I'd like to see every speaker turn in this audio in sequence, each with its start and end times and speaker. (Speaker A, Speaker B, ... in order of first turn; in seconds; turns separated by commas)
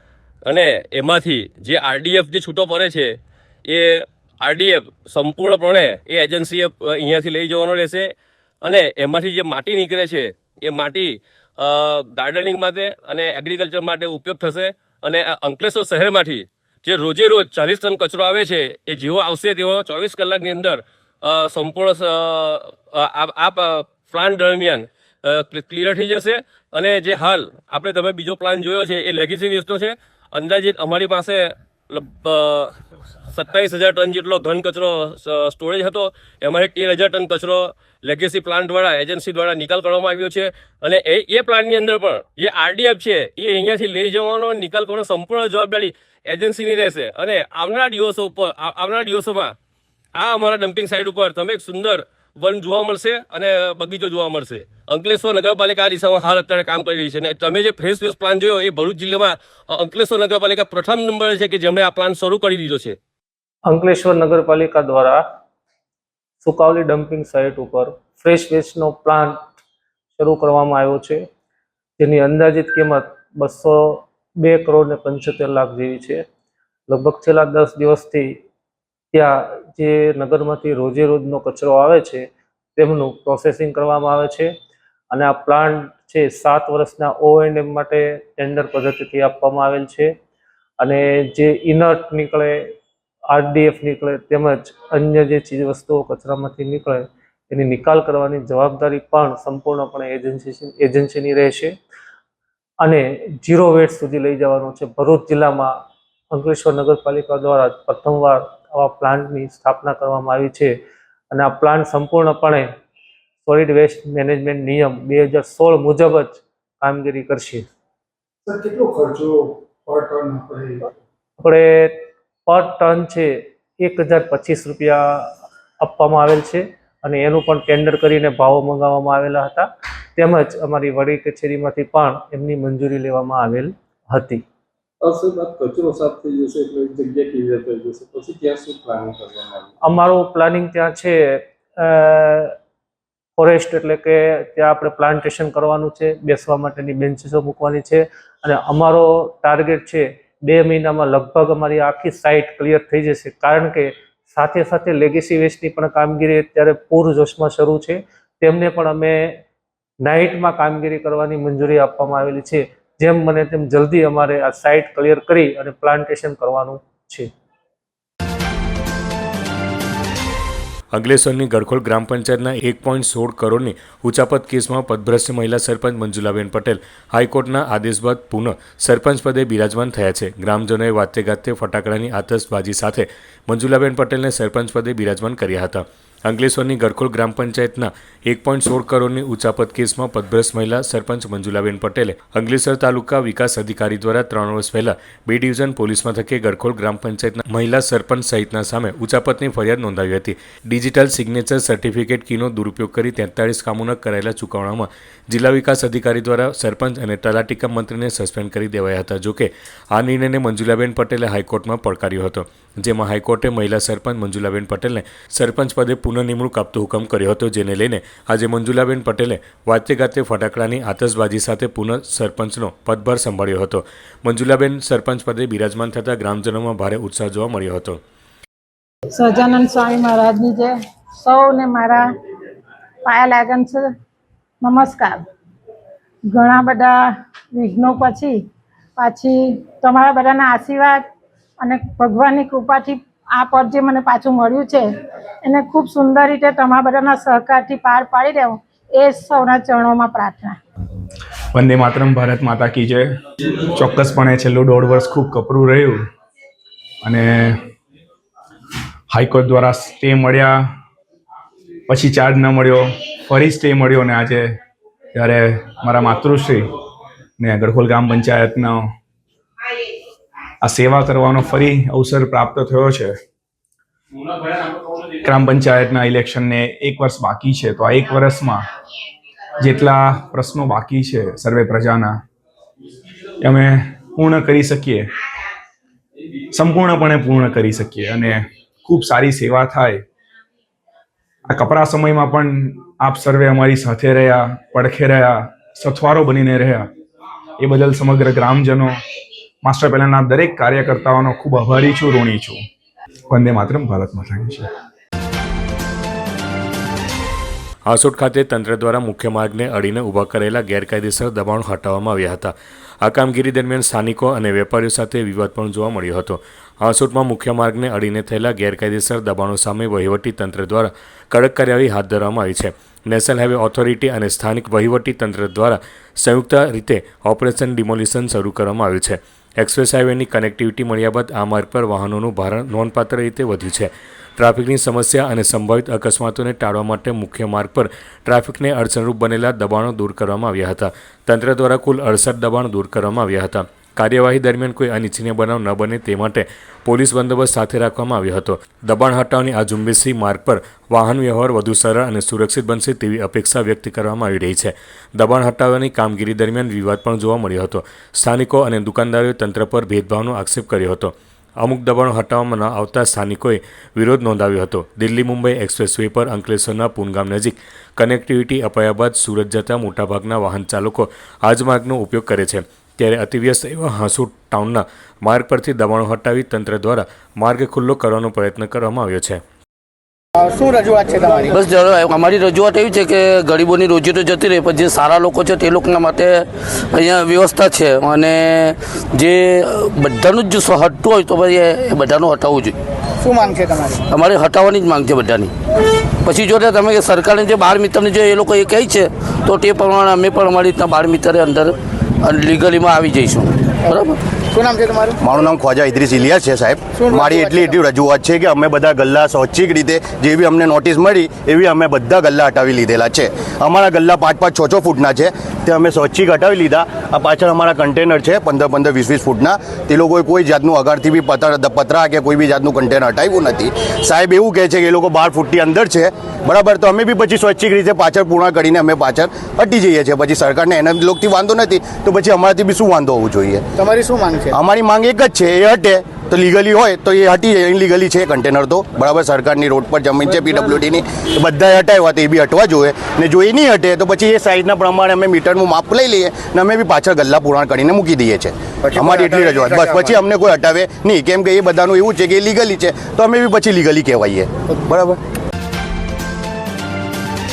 Speaker A: 0.4-8.1, Speaker A: 8.6-32.8, Speaker A: 33.3-49.5, Speaker A: 50.1-63.0, Speaker B: 63.7-65.2, Speaker B: 66.4-69.6, Speaker B: 70.2-71.2, Speaker B: 72.0-76.2, Speaker B: 76.9-78.4, Speaker B: 79.1-84.5, Speaker B: 85.1-90.1, Speaker B: 90.8-92.7, Speaker B: 93.3-101.7, Speaker B: 102.8-105.8, Speaker B: 106.3-110.8, Speaker B: 111.3-112.7, Speaker B: 113.5-117.7, Speaker C: 118.5-120.8, Speaker B: 121.4-134.4, Speaker C: 135.0-139.7, Speaker B: 139.8-142.6, Speaker B: 143.4-159.4, Speaker B: 160.0-167.3, Speaker D: 170.9-228.0, Speaker E: 229.1-232.1, Speaker E: 233.0-233.9, Speaker E: 234.6-235.2, Speaker E: 236.3-238.4, Speaker E: 239.0-241.1, Speaker E: 241.6-244.9, Speaker E: 245.4-250.6, Speaker F: 251.5-256.1, Speaker F: 257.0-257.6, Speaker F: 259.1-260.7, Speaker F: 261.9-264.6, Speaker F: 265.1-266.7, Speaker F: 267.4-268.9, Speaker F: 270.6-273.2, Speaker F: 275.1-278.7, Speaker F: 279.6-282.2, Speaker F: 283.4-285.1, Speaker F: 286.5-290.0, Speaker F: 291.4-296.9, Speaker F: 297.6-299.0, Speaker F: 299.6-302.6, Speaker F: 303.3-304.7, Speaker D: 307.9-379.4, Speaker G: 380.4-381.6, Speaker H: 381.5-392.7, Speaker G: 393.2-394.0, Speaker H: 394.1-395.5, Speaker H: 396.2-404.1, Speaker G: 404.5-405.2, Speaker I: 405.2-433.6, Speaker G: 407.0-407.7, Speaker G: 433.8-434.5, Speaker I: 434.5-455.2, Speaker G: 448.9-450.1